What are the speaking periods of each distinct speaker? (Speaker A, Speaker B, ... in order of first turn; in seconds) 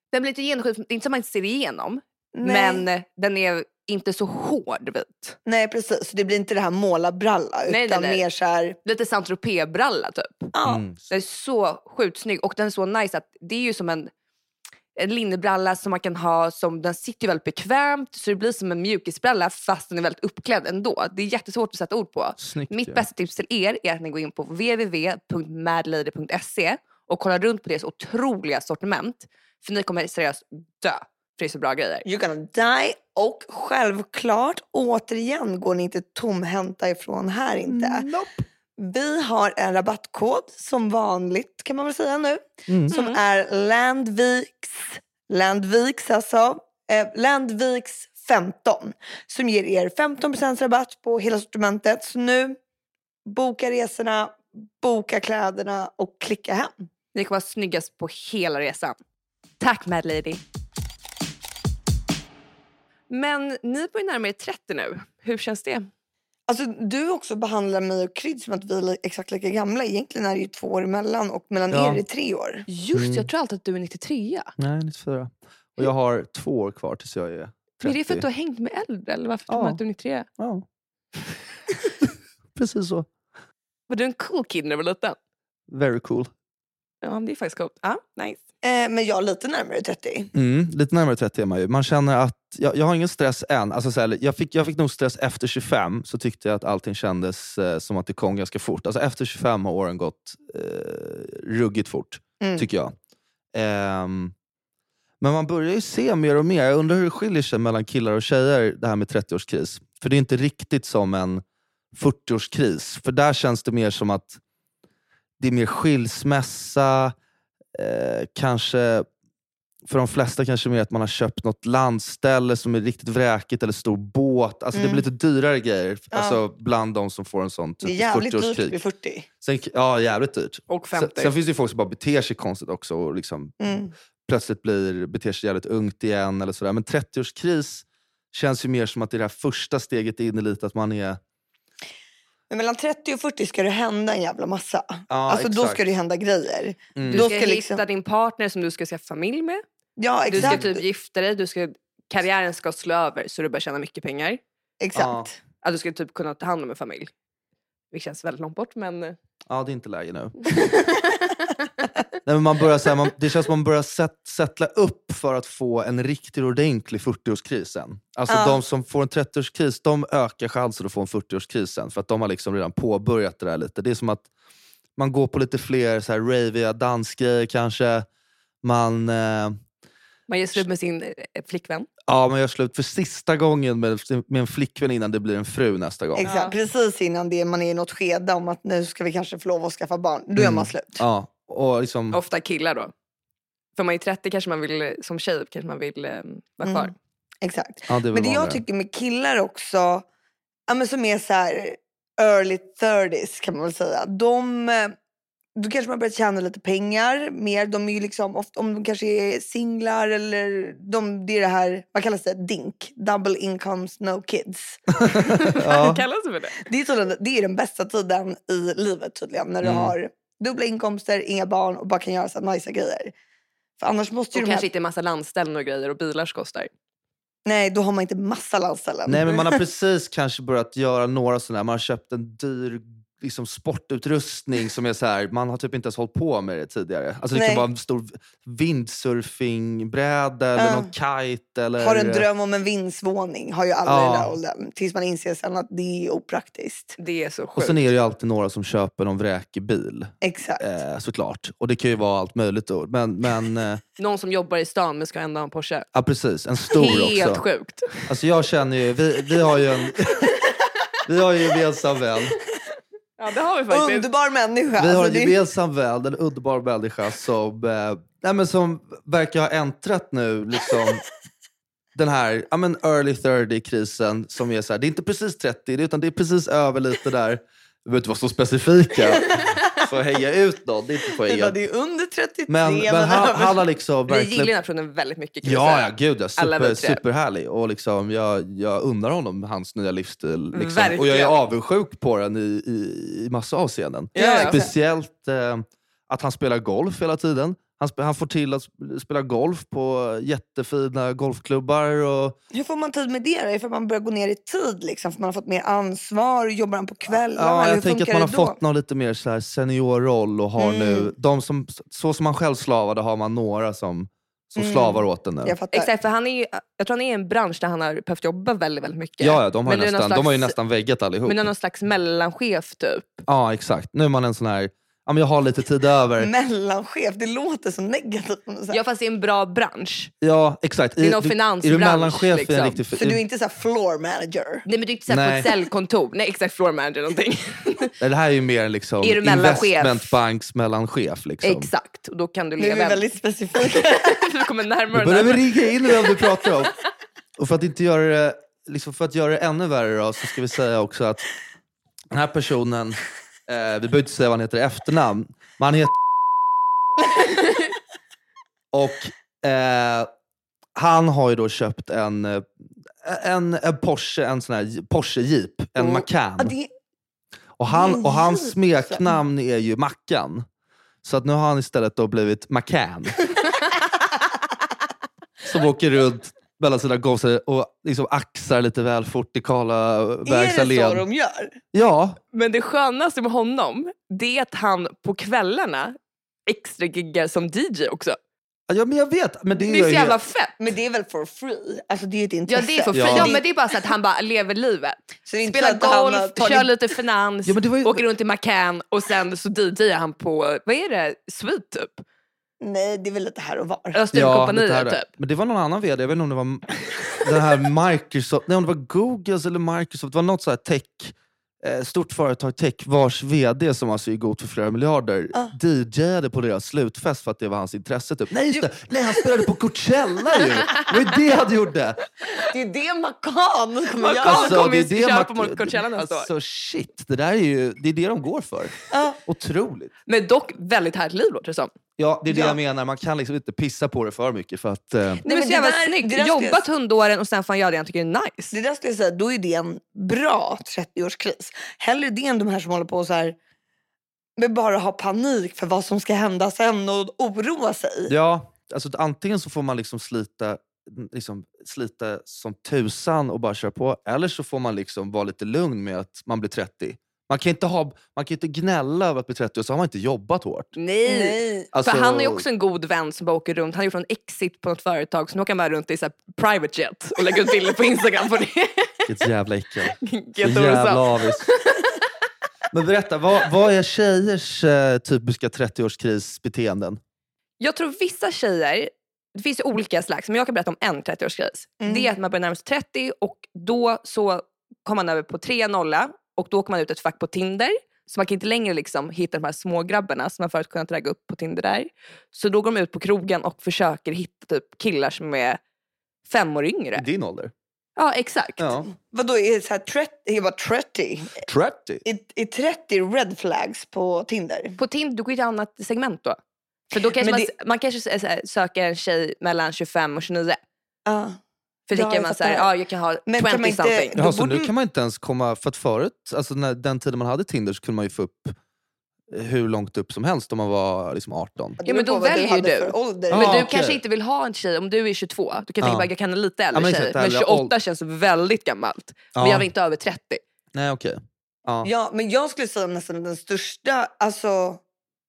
Speaker A: 0.1-5.4, 7.7-8.2, 8.8-10.5, 11.1-14.1, 15.0-32.1, 42.9-43.2, 57.1-59.0, 59.6-60.4, 63.1-65.9, 72.7-74.5, 77.8-80.3, 83.9-85.2, 87.0-88.4, 130.7-131.3, 147.1-149.6, 150.3-154.4, 155.6-157.1, 157.9-159.2, 160.6-161.6, 180.3-181.9, 186.2-186.6, 192.1-192.9, 193.8-196.9, 215.2-216.7, 224.3-226.7, 247.0-247.8, 254.0-255.9, 256.7-258.1, 263.2-264.1, 284.1-287.0, 290.5-291.4, 294.1-294.6, 315.7-320.6, 321.2-323.3, 328.7-330.1, 331.0-332.8, 334.6-337.9, 339.0-340.2, 341.4-343.1, 343.6-346.0, 382.3-386.0, 386.5-388.2, 389.5-390.6, 392.5-402.0, 403.9-405.1, 424.0-426.3, 430.1-431.7, 435.2-438.6, 460.8-469.1, 469.9-472.0, 477.6-495.6, 496.3-497.1, 498.0-498.7, 504.8-506.4, 506.9-510.6, 511.9-514.1, 521.9-530.4
Speaker B: 2.3-2.9, 5.5-8.8, 10.5-10.8, 32.0-38.1, 38.8-52.6, 53.3-56.9, 66.5-72.7, 88.6-90.3, 102.4-102.7, 124.7-125.0, 126.1-126.4, 127.8-129.3, 133.6-133.9, 142.5-147.8, 150.0-150.8, 154.8-155.3, 168.3-168.6, 186.2-191.0, 196.7-200.1, 200.7-205.0, 205.6-215.6, 216.6-223.1, 223.8-224.7, 227.5-229.6, 237.3-237.7, 240.6-240.9, 241.8-246.9, 250.2-250.7, 263.7-265.4, 281.2-283.6, 294.2-294.7, 302.5-308.6, 310.6-311.1, 314.6-315.9, 326.2-328.8, 333.0-334.6, 342.6-344.3, 365.8-366.7, 367.7-369.2, 380.3-381.6, 390.6-393.4, 395.3-396.7, 402.6-404.0, 422.3-424.6, 428.9-429.2, 432.3-432.6, 435.2-436.6, 438.5-443.4, 444.4-448.1, 461.1-461.7, 481.8-482.1, 498.9-501.5, 502.1-504.8, 507.0-507.5, 511.1-511.4, 511.9-512.7, 513.3-514.7, 521.8-523.7, 531.8-534.8
Speaker C: 10.7-11.0, 22.4-23.1, 37.7-38.4, 71.7-72.0, 72.9-73.3, 74.6-78.2, 79.5-79.8, 80.4-80.7, 82.0-83.1, 85.7-86.3, 90.3-102.9, 103.5-104.3, 105.2-111.4, 111.9-114.4, 115.4-117.1, 117.7-119.1, 119.8-128.8, 129.4-133.8, 134.3-141.2, 145.1-145.8, 146.9-147.3, 150.3-150.7, 154.9-155.3, 159.5-160.4, 162.2-174.3, 175.0-178.1, 178.6-179.6, 182.1-186.2, 190.4-192.2, 197.9-198.6, 215.0-216.0, 219.6-219.9, 229.1-242.3, 243.9-244.4, 247.6-253.8, 255.9-257.4, 258.1-260.5, 261.0-262.4, 264.8-271.0, 271.9-281.6, 282.5-284.5, 285.4-302.4, 307.1-315.6, 319.2-321.4, 323.3-326.3, 330.2-333.2, 335.1-335.5, 338.0-341.7, 344.9-346.8, 347.4-351.2, 352.1-356.0, 358.7-360.1, 360.8-362.5, 363.0-366.5, 367.6-370.4, 371.0-373.2, 375.4-381.1, 381.7-382.2, 388.7-390.2, 392.9-393.4, 397.5-398.0, 404.1-422.0, 424.2-429.9, 432.0-435.2, 448.1-460.7, 461.7-462.4, 469.1-471.5, 472.7-477.0, 497.0-497.5, 498.6-498.9, 501.4-502.0, 514.2-518.5, 519.3-521.8, 523.3-524.0, 525.8-526.1, 526.7-527.7, 529.4-529.7, 530.7-531.9